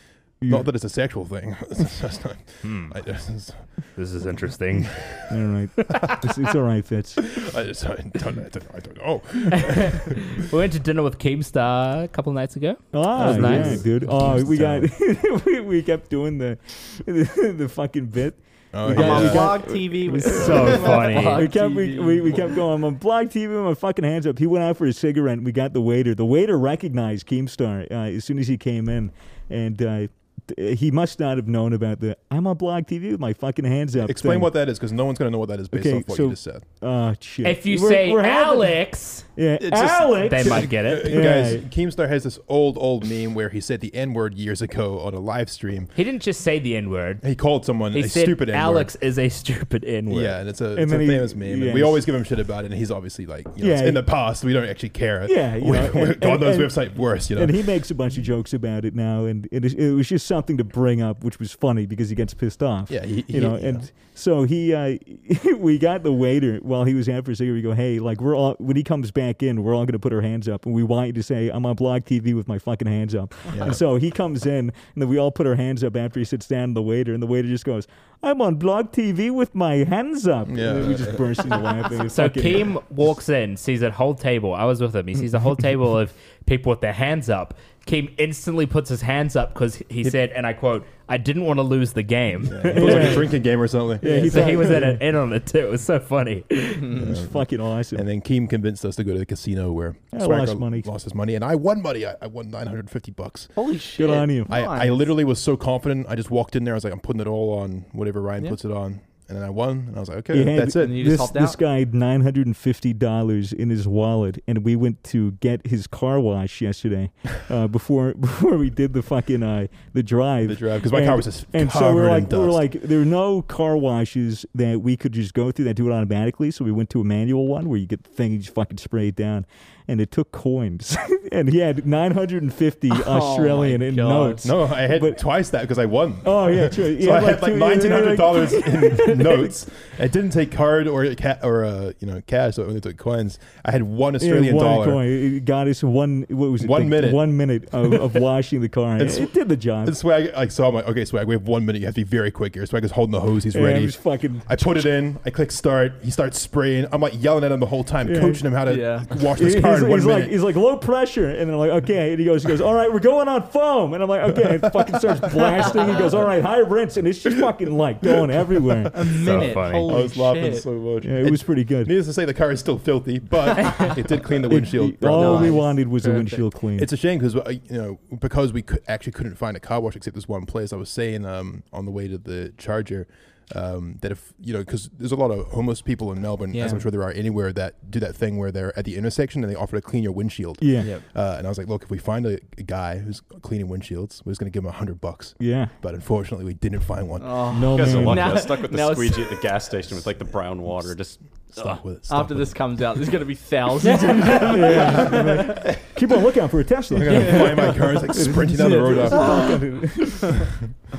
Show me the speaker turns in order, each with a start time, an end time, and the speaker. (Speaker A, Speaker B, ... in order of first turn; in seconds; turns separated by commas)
Speaker A: 0.4-0.7, Speaker B: 0.5-3.7, Speaker C: 2.6-3.0, Speaker C: 4.0-5.0, Speaker A: 5.3-7.2, Speaker B: 7.3-10.4, Speaker C: 9.7-14.0, Speaker A: 12.9-34.5, Speaker B: 13.1-14.9, Speaker B: 18.7-19.7, Speaker D: 18.9-22.6, Speaker C: 20.2-21.5, Speaker B: 34.0-36.6, Speaker A: 35.7-38.8, Speaker C: 37.4-39.3, Speaker A: 39.4-41.7, Speaker E: 39.6-40.7, Speaker C: 40.2-41.2, Speaker B: 40.7-45.9, Speaker C: 46.0-47.2, Speaker B: 47.2-48.9, Speaker C: 47.9-50.4, Speaker B: 50.1-57.6, Speaker A: 50.7-52.1, Speaker A: 53.6-54.1, Speaker A: 55.2-82.7, Speaker B: 62.9-63.9, Speaker B: 73.5-73.8, Speaker B: 80.5-81.5, Speaker C: 82.1-93.2, Speaker B: 92.5-94.8, Speaker A: 92.6-93.4, Speaker A: 94.0-95.0, Speaker C: 94.0-96.9, Speaker B: 96.9-103.6, Speaker A: 97.0-98.0, Speaker A: 100.1-100.9, Speaker D: 103.6-105.1, Speaker A: 104.0-104.5, Speaker B: 104.5-111.1, Speaker A: 110.3-135.2, Speaker D: 110.8-111.6, Speaker B: 120.5-122.6, Speaker D: 132.9-134.5, Speaker B: 134.4-145.0, Speaker A: 136.2-139.5, Speaker A: 144.2-150.0, Speaker B: 146.6-147.9, Speaker B: 149.0-160.4, Speaker A: 153.5-154.9, Speaker A: 158.0-158.6, Speaker D: 158.7-159.1, Speaker A: 159.2-169.2, Speaker D: 165.6-166.1, Speaker D: 168.9-170.7, Speaker C: 169.2-169.9, Speaker B: 169.2-175.7, Speaker A: 171.0-171.9, Speaker A: 174.5-176.9, Speaker D: 175.1-176.4, Speaker B: 176.8-198.1, Speaker D: 186.5-186.9, Speaker A: 190.6-190.9, Speaker A: 195.4-195.7, Speaker D: 197.2-199.5, Speaker A: 197.5-198.4, Speaker E: 197.7-201.8, Speaker B: 201.5-203.0, Speaker D: 202.1-205.7, Speaker C: 203.8-204.8, Speaker A: 204.0-210.4, Speaker B: 204.8-205.9, Speaker B: 206.9-209.4, Speaker D: 207.1-208.0, Speaker D: 208.6-210.3